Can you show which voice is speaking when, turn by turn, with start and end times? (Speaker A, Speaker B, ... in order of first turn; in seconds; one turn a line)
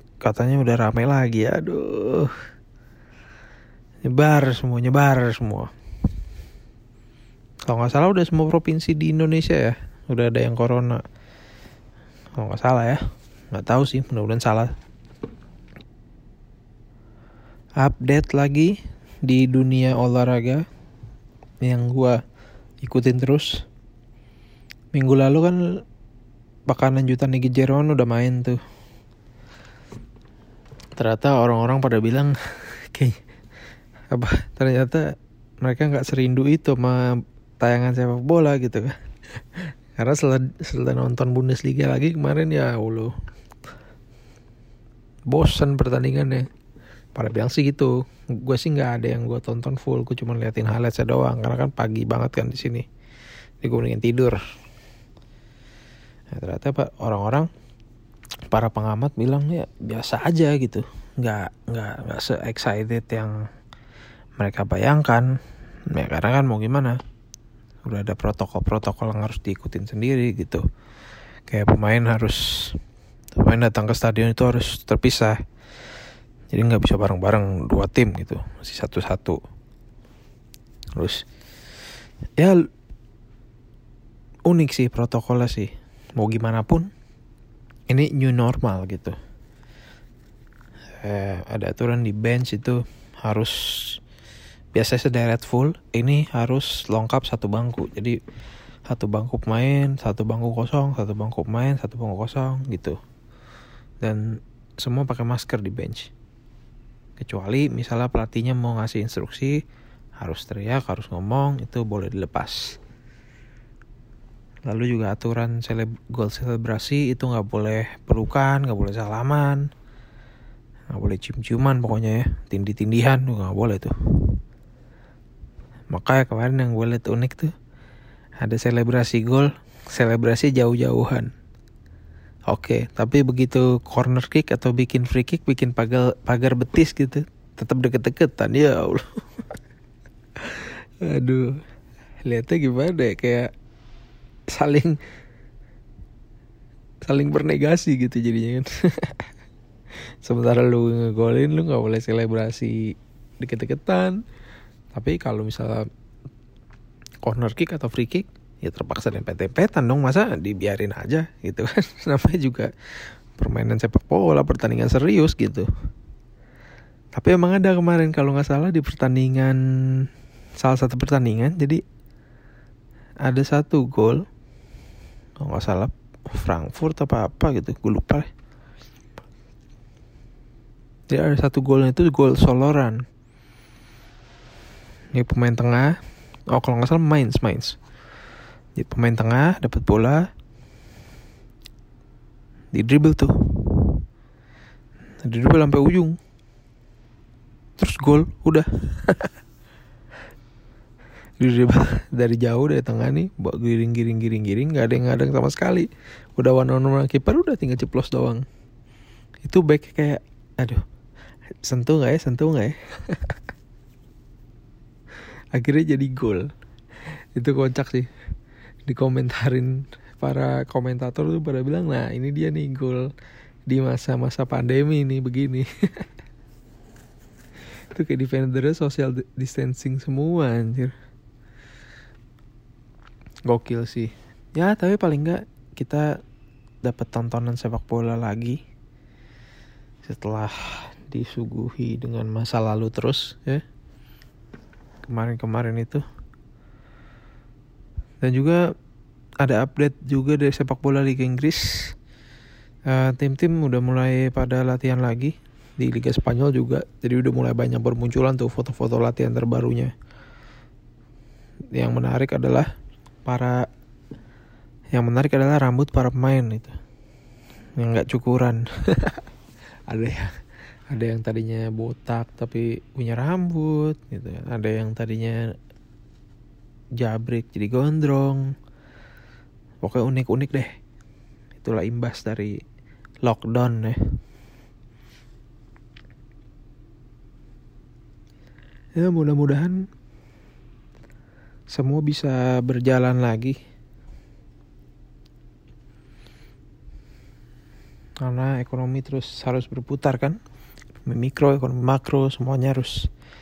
Speaker A: 0.2-2.3
Speaker A: 4.0-5.7
Speaker A: 7.7-11.0
Speaker A: 12.4-13.0
Speaker A: 13.5-14.7
Speaker A: 17.8-20.6
Speaker A: 21.6-22.2
Speaker A: 22.8-23.6
Speaker A: 24.9-25.6
Speaker A: 26.7-28.6
Speaker A: 31.0-33.2
Speaker A: 34.1-35.0
Speaker A: 35.6-37.0
Speaker A: 37.6-38.9
Speaker A: 39.6-43.1
Speaker A: 45.3-46.5
Speaker A: 47.2-52.9
Speaker A: 53.6-54.4
Speaker A: 56.3-57.5
Speaker A: 58.5-63.4
Speaker A: 64.4-65.3
Speaker A: 65.9-67.0
Speaker A: 67.8-70.6
Speaker A: 71.5-72.8
Speaker A: 73.3-75.4
Speaker A: 76.5-79.4
Speaker A: 81.0-81.2
Speaker A: 82.4-82.6
Speaker A: 84.5-86.9
Speaker A: 87.9-89.2
Speaker A: 91.0-94.0
Speaker A: 94.7-98.2
Speaker A: 98.9-103.0
Speaker A: 104.8-106.1
Speaker A: 107.2-109.6
Speaker A: 110.2-112.8
Speaker A: 114.7-119.7
Speaker A: 120.9-124.4
Speaker A: 125.9-127.5
Speaker A: 128.4-131.3
Speaker A: 132.5-139.4
Speaker A: 140.4-141.6
Speaker A: 142.2-143.5
Speaker A: 144.5-145.0
Speaker A: 147.0-149.3
Speaker A: 150.2-154.2
Speaker A: 154.9-155.9
Speaker A: 157.2-162.7
Speaker A: 163.4-165.7
Speaker A: 167.1-170.1
Speaker A: 170.6-171.8
Speaker A: 173.2-174.2
Speaker A: 175.4-178.3
Speaker A: 181.1-183.0
Speaker A: 185.1-186.0
Speaker A: 186.5-187.8
Speaker A: 188.8-190.3
Speaker A: 192.7-194.0
Speaker A: 195.2-196.2
Speaker A: 197.8-199.3
Speaker A: 201.4-208.4
Speaker A: 209.4-210.8
Speaker A: 211.6-213.4
Speaker A: 215.5-216.5
Speaker A: 217.3-218.1
Speaker A: 218.9-223.1
Speaker A: 223.7-226.0
Speaker A: 227.9-230.9
Speaker A: 233.5-236.1
Speaker A: 236.8-238.6
Speaker A: 240.1-243.6
Speaker A: 245.0-246.0
Speaker A: 248.2-248.6
Speaker A: 249.4-251.9
Speaker A: 252.9-259.9
Speaker A: 261.7-262.7
Speaker A: 263.3-263.6
Speaker A: 264.9-266.8
Speaker A: 267.8-269.2
Speaker A: 269.9-270.3
Speaker A: 270.9-275.4
Speaker A: 277.0-278.5
Speaker A: 279.8-280.7
Speaker A: 281.6-282.6
Speaker A: 283.2-284.0
Speaker A: 289.0-289.8
Speaker A: 291.7-293.6
Speaker A: 298.2-300.4
Speaker A: 301.1-303.1